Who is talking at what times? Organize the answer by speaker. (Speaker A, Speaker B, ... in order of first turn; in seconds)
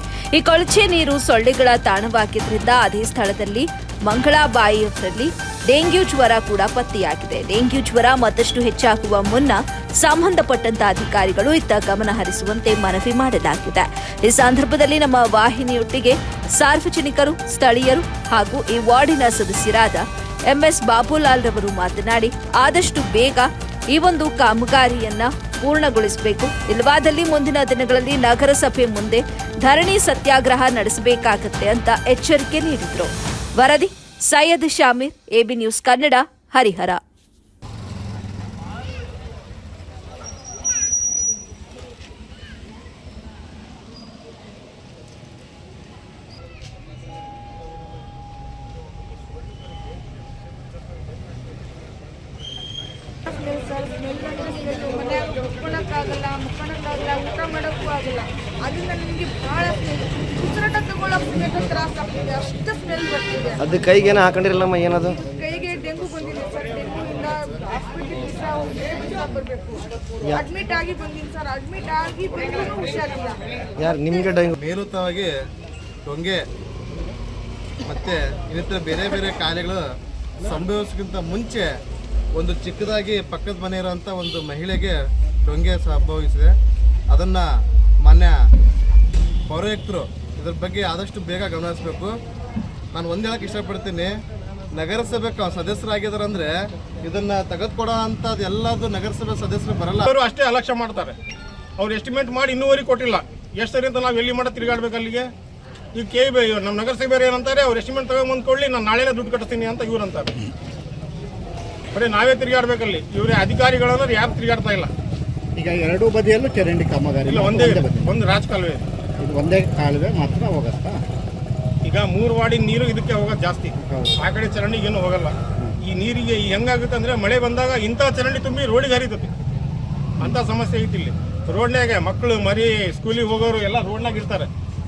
Speaker A: 0.3-37.0
Speaker B: 53.2-63.6, 65.2-73.5
Speaker C: 63.6-65.2, 73.8-74.5
Speaker D: 74.6-75.3, 76.0-76.4, 77.8-79.8, 80.4-81.7, 82.3-86.5, 87.1-87.5, 88.0-88.3, 89.5-92.1, 92.9-94.1, 94.7-96.5, 97.0-100.1
Speaker E: 100.1-101.2, 101.8-105.3, 105.9-110.3, 111.9-114.9, 117.3-118.8, 121.8-129.3, 130.2-134.5
Speaker F: 115.5-118.1, 119.2-121.0, 123.8-124.1